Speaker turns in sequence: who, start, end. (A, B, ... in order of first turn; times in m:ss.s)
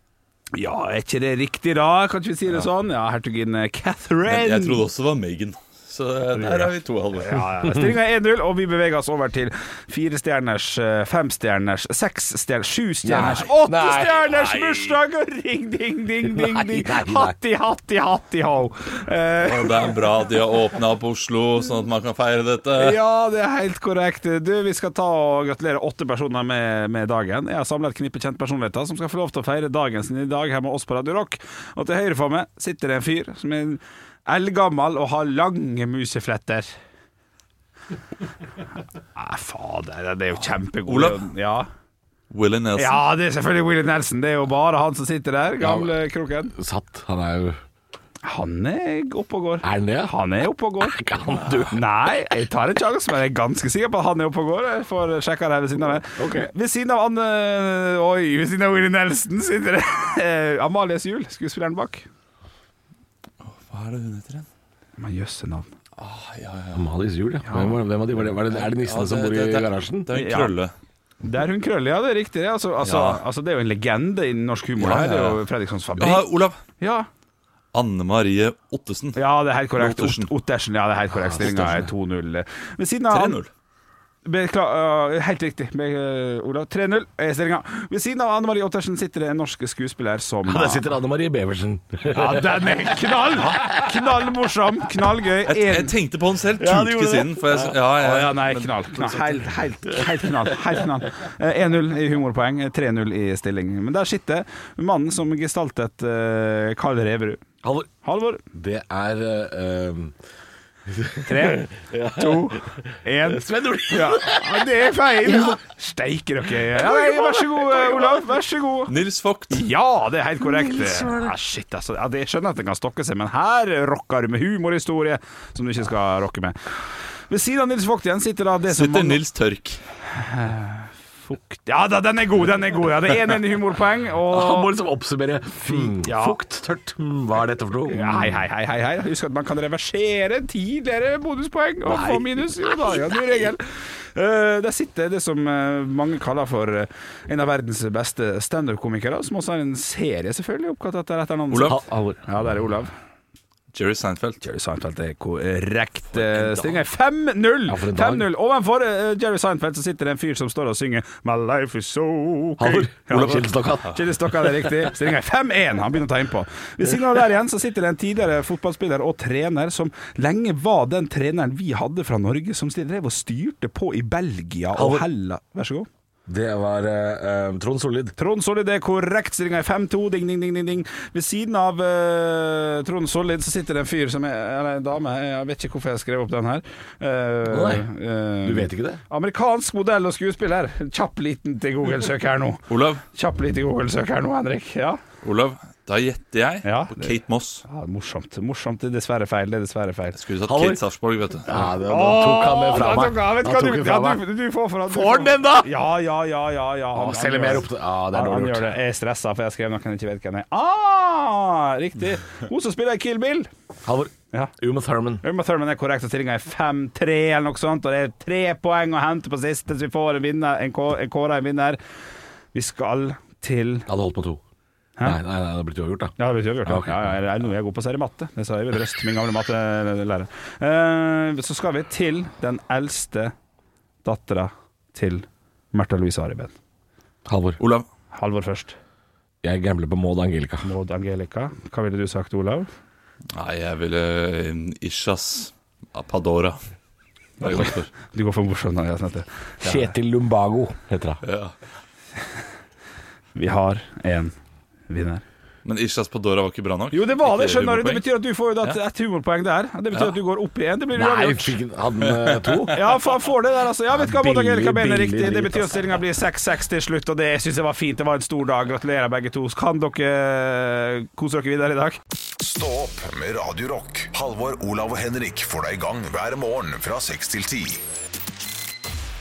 0:00.5-0:04.8 A
0:04.3-0:07.5 B
0:06.4-0:19.9 A
0:13.0-0:14.4 C
0:13.2-0:13.5 B
0:14.4-0:14.8 B
0:16.2-0:17.4 C
0:19.4-0:23.0 B
0:22.8-0:36.7 A
0:39.2-0:41.7 A
0:40.9-0:41.2 B
0:42.3-0:43.0 B
0:42.8-0:46.5 A
0:45.6-0:45.9 C
0:46.5-0:47.6 C
0:48.2-0:51.0 A
0:49.6-0:50.1 C
0:50.8-0:51.9 C
0:51.7-1:02.1 A
0:56.2-0:56.5 C
1:03.4-1:04.5 B
1:05.0-1:05.7 A
1:06.0-1:06.8 B
1:06.7-1:10.1 C
1:07.5-1:07.8 A
1:08.2-1:10.7 B
1:10.1-1:10.5 A
1:11.2-1:17.1 A
1:12.8-1:13.2 B
1:14.8-1:15.4 B
1:16.0-1:16.6 B
1:17.7-1:19.2 B
1:19.2-1:23.4 A
1:19.8-1:20.3 B
1:21.1-1:21.9 C
1:23.1-1:23.5 B
1:24.2-1:30.8 A
1:30.4-1:33.0 C
1:32.1-1:35.9 A
1:35.5-1:39.5 B
1:36.7-1:37.8 C
1:36.8-1:37.2 A
1:38.0-1:47.4 A
1:40.2-1:40.5 C
1:47.6-1:47.9 C
1:48.0-1:48.4 A
1:48.5-1:50.2 C
1:50.9-1:54.6 C
1:51.3-1:58.9 A
1:55.3-1:55.6 C
1:56.7-1:58.2 C
1:58.9-1:59.7 B
1:59.5-2:06.7 A
2:00.4-2:01.3 C
2:07.3-2:09.2 A
2:08.7-2:09.8 B
2:10.2-2:14.7 A
2:14.3-2:18.4 C
2:15.7-2:16.4 A
2:17.9-2:32.9 A
2:21.9-2:23.0 C
2:31.5-2:31.8 B
2:31.7-2:32.2 C
2:33.7-2:34.4 B
2:34.4-2:55.9 A
2:36.1-2:36.8 B
2:37.7-2:38.3 C
2:42.6-2:44.0 C
2:43.1-2:43.9 B
2:54.7-2:55.0 C
2:56.3-2:58.1 C
2:58.2-3:15.0 A
3:07.5-3:07.9 C
3:08.4-3:09.0 C
3:12.7-3:13.0 B
3:15.2-3:17.6 B
3:16.6-3:20.2 A
3:20.1-3:21.5 B
3:20.5-3:20.8 C
3:21.5-3:24.2 C
3:21.5-3:33.5 A
3:24.9-3:25.7 C
3:26.9-3:28.7 C
3:33.8-3:35.2 C
3:35.2-3:41.8 A
3:42.5-3:43.9 A
3:43.9-3:44.4 C
3:45.0-3:46.1 C
3:46.2-3:53.3 A
3:46.6-3:47.2 C
3:54.0-3:56.6 A
3:57.3-3:57.6 C
3:57.6-3:57.9 B
3:58.1-3:58.8 A
3:59.4-4:00.7 C
4:00.6-4:02.7 A
4:03.3-4:06.6 B
4:07.4-4:07.9 B
4:07.4-4:09.9 A
4:09.6-4:11.2 C
4:11.2-4:11.5 B
4:13.4-4:14.4 A
4:14.9-4:15.2 A
4:15.6-4:18.1 B
4:16.9-4:21.6 A
4:21.0-4:22.8 C
4:22.1-4:22.8 B
4:22.7-4:32.0 A
4:24.0-4:26.0 C
4:32.4-4:37.8 D